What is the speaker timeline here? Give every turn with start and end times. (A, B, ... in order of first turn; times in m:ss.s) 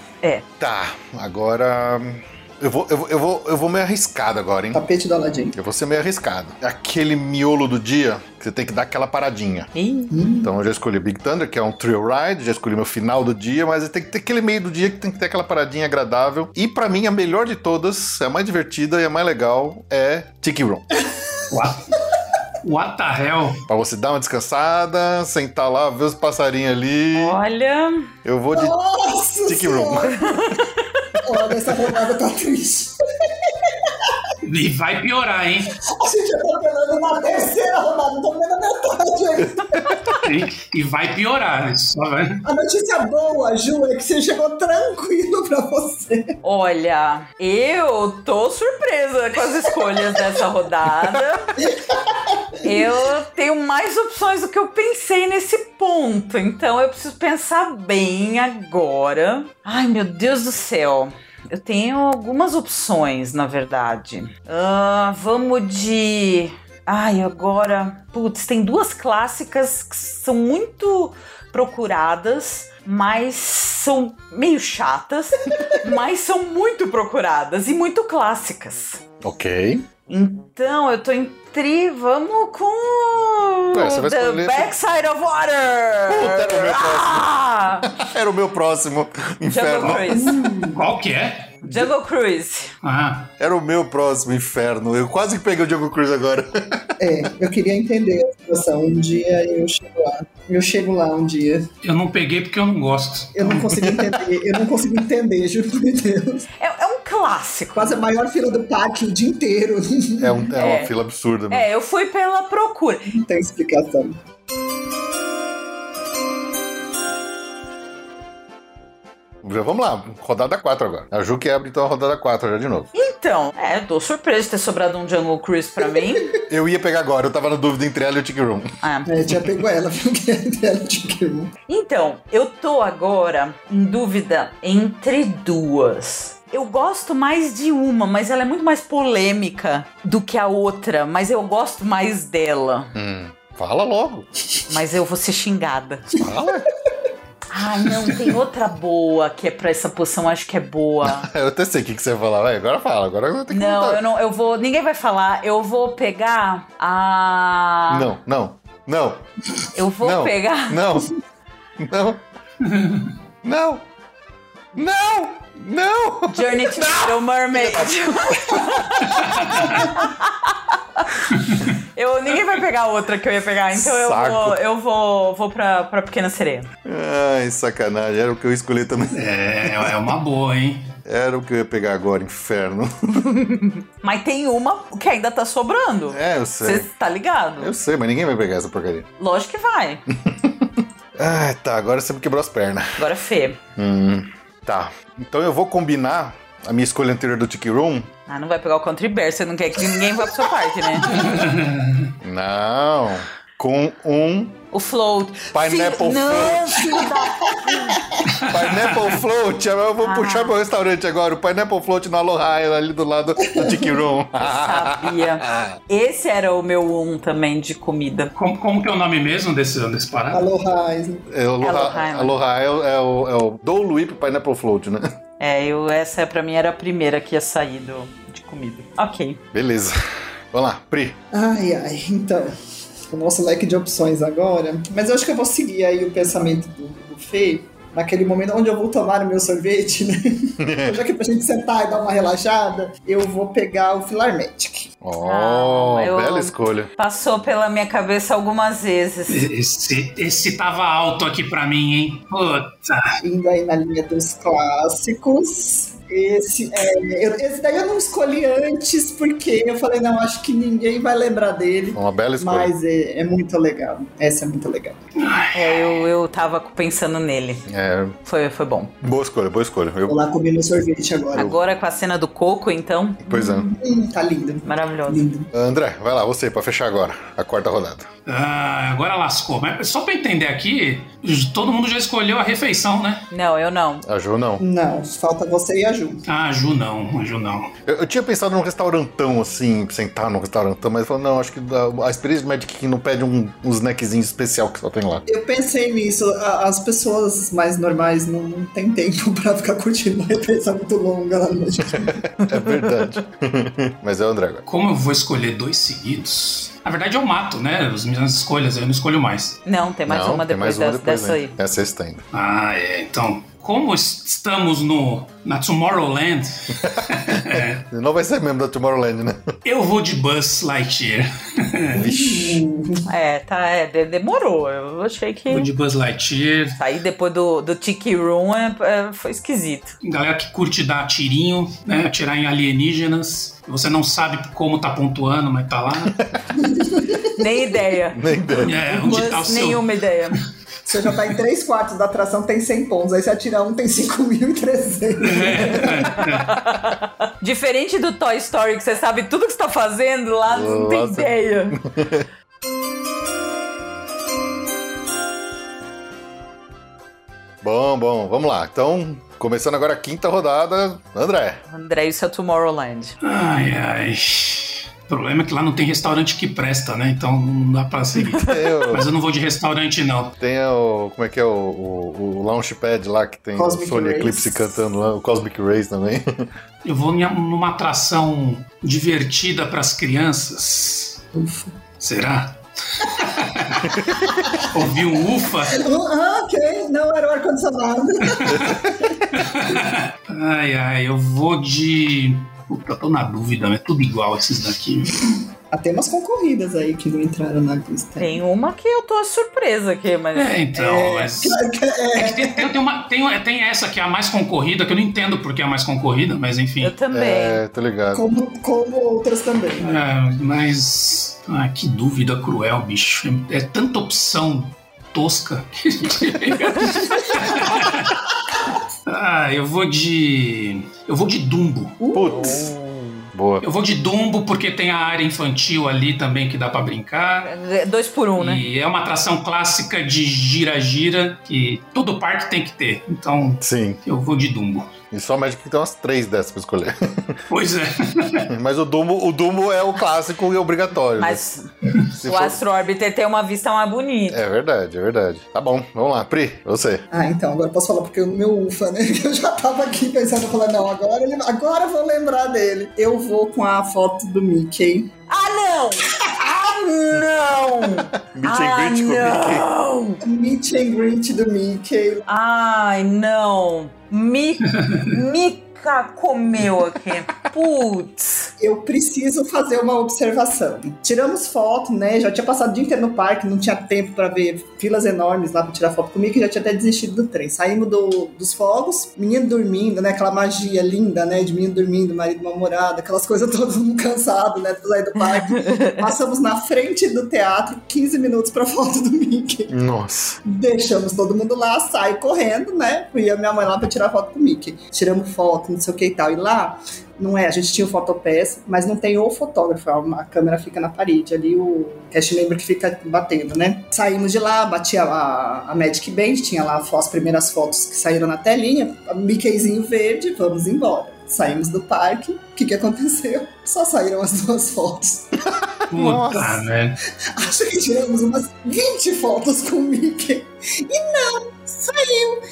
0:00.6-0:04.8 A
0:04.7-0:05.6 B
0:05.6-0:09.7 A
0:09.8-0:10.1 C
0:10.1-0:10.5 B
0:10.4-0:20.9 A
0:21.5-0:21.9 D
0:22.6-0:23.6 D
0:23.7-0:27.4 A
0:27.2-0:28.1 C
0:28.2-0:28.7 A
0:28.5-0:30.4 B
0:29.5-0:30.2 A
0:30.1-0:30.9 C
0:31.2-0:34.2 B
0:34.4-0:35.8 D
0:35.9-0:39.9 B
0:40.2-0:42.4 D
0:42.4-0:46.4 B
0:46.4-0:51.5 C
0:51.6-0:52.9 B
0:52.6-1:19.0 C
1:19.2-1:19.8 A
1:20.1-1:27.9 C
1:23.7-1:24.7 A
1:26.1-1:27.3 A
1:27.8-1:30.1 A
1:29.5-1:30.4 C
1:30.1-1:30.8 B
1:30.6-1:31.6 D
1:31.6-1:32.7 C
1:32.8-1:33.3 D
1:33.4-1:36.9 A
1:37.0-1:41.7 B
1:41.8-1:43.7 D
1:43.4-1:46.5 B
1:43.8-1:44.2 A
1:46.6-1:48.0 C
1:47.8-1:50.5 B
1:50.2-1:51.6 A
1:50.6-1:50.9 C
1:51.5-1:53.1 C
1:53.1-1:54.2 B
1:59.4-2:02.9 A
2:02.9-2:06.4 C
2:06.4-2:08.7 A
2:08.8-2:09.1 C
2:09.1-2:11.5 B
2:11.7-2:22.9 C
2:23.0-2:24.3 A
2:24.7-2:26.2 C
2:26.2-2:26.7 A
2:27.5-2:31.3 C
2:31.0-2:34.0 A
2:33.5-2:38.1 C
2:37.9-2:39.2 A
2:39.7-2:40.8 C
2:40.0-2:41.1 A
2:41.8-2:42.2 A
2:42.6-2:43.1 D
2:43.4-2:43.8 A
2:44.8-2:49.2 A
2:46.3-2:51.1 C
2:49.4-2:49.7 D
2:52.0-2:56.7 C
2:53.7-2:54.6 A
2:56.8-2:59.2 A
2:59.1-3:00.9 D
3:01.0-3:03.2 A
3:03.2-3:07.7 C
3:06.1-3:06.9 A
3:07.6-3:09.1 A
3:09.2-3:10.0 C
3:10.3-3:13.0 A
3:13.0-3:13.6 C
3:13.8-3:18.1 A
3:18.3-3:21.2 C
3:21.1-3:22.1 D
3:22.2-3:24.6 A
3:24.7-3:28.1 C
3:25.5-3:27.0 A
3:27.0-3:28.2 B
3:28.4-3:35.8 A
3:28.5-3:29.1 D
3:30.0-3:30.5 C
3:33.5-3:33.9 B
3:34.4-3:38.3 C
3:38.4-3:40.5 D
3:40.3-3:41.3 B
3:41.3-3:45.1 A
3:41.6-3:42.4 C
3:45.4-3:49.4 C
3:49.5-3:50.0 A
3:50.5-3:51.2 A
3:51.3-4:04.9 B
4:00.6-4:01.0 A
4:05.0-4:06.9 A
4:05.2-4:09.5 C
4:09.3-4:13.2 D
4:13.2-4:25.0 B
4:22.0-4:22.7 A
4:25.2-4:26.0 D
4:25.5-4:27.6 C
4:27.7-4:28.2 A
4:28.2-4:28.9 C
4:29.0-4:30.2 A
4:30.1-4:31.6 B
4:31.4-4:33.2 C
4:33.2-4:33.7 A
4:33.3-4:35.5 B
4:34.7-4:35.2 C
4:35.5-4:38.1 A
4:38.3-4:43.3 D
4:43.3-4:44.0 C
4:44.0-4:44.6 A
4:44.6-4:46.2 B
4:46.3-4:47.7 D
4:47.9-4:55.2 A
4:55.3-5:02.2 B
5:02.0-5:04.6 A
5:04.7-5:09.6 D
5:09.6-5:11.6 C
5:10.1-5:12.2 A
5:12.3-5:17.8 D
5:16.8-5:19.5 A
5:19.6-5:22.6 D
5:21.9-5:23.1 B
5:23.1-5:25.7 C
5:25.5-5:26.8 D
5:26.8-5:29.9 C
5:30.0-5:36.2 D
5:36.6-5:37.5 B
5:37.3-5:38.2 C
5:38.1-5:38.8 A
5:38.6-5:40.4 D
5:38.9-5:40.4 C
5:40.9-5:46.2 B
5:45.2-5:46.5 D
5:46.4-5:51.8 C
5:50.5-5:52.3 A
5:57.6-6:01.6 A
6:01.7-6:03.2 C
6:03.2-6:10.4 D
6:08.3-6:09.0 A
6:10.4-6:16.5 A
6:13.6-6:14.8 B
6:16.8-6:21.2 D
6:21.3-6:21.7 B
6:22.0-6:24.0 D
6:24.0-6:24.4 A
6:24.5-6:25.8 D
6:25.7-6:29.2 B
6:28.3-6:28.8 D
6:29.3-6:35.4 D
6:35.7-6:38.4 B
6:38.2-6:40.6 C
6:40.3-6:41.6 D
6:40.8-6:42.7 B
6:42.2-6:47.0 D
6:46.8-6:47.6 C
6:47.1-6:48.2 A
6:48.1-6:50.0 B
6:49.8-6:58.3 D
6:59.1-7:02.0 D
7:02.0-7:02.7 B
7:02.1-7:02.7 A
7:02.4-7:03.3 C
7:03.3-7:03.6 A
7:03.6-7:07.5 D
7:07.4-7:08.6 C
7:08.4-7:14.9 D
7:13.6-7:14.0 A
7:15.1-7:17.4 A
7:17.5-7:18.5 D
7:18.5-7:21.4 A
7:21.2-7:21.7 C
7:22.2-7:22.6 A
7:22.2-7:24.4 C
7:24.3-7:27.0 A
7:27.1-7:35.1 B
7:35.3-7:40.2 C
7:36.1-7:36.5 B
7:38.2-7:39.7 A
7:40.2-7:42.3 B
7:42.3-7:48.5 C
7:48.6-8:09.7 B
8:05.6-8:06.0 C
8:09.7-8:10.4 A
8:10.4-8:35.5 B
8:35.6-8:36.6 A
8:35.9-8:37.0 D
8:37.3-8:42.4 B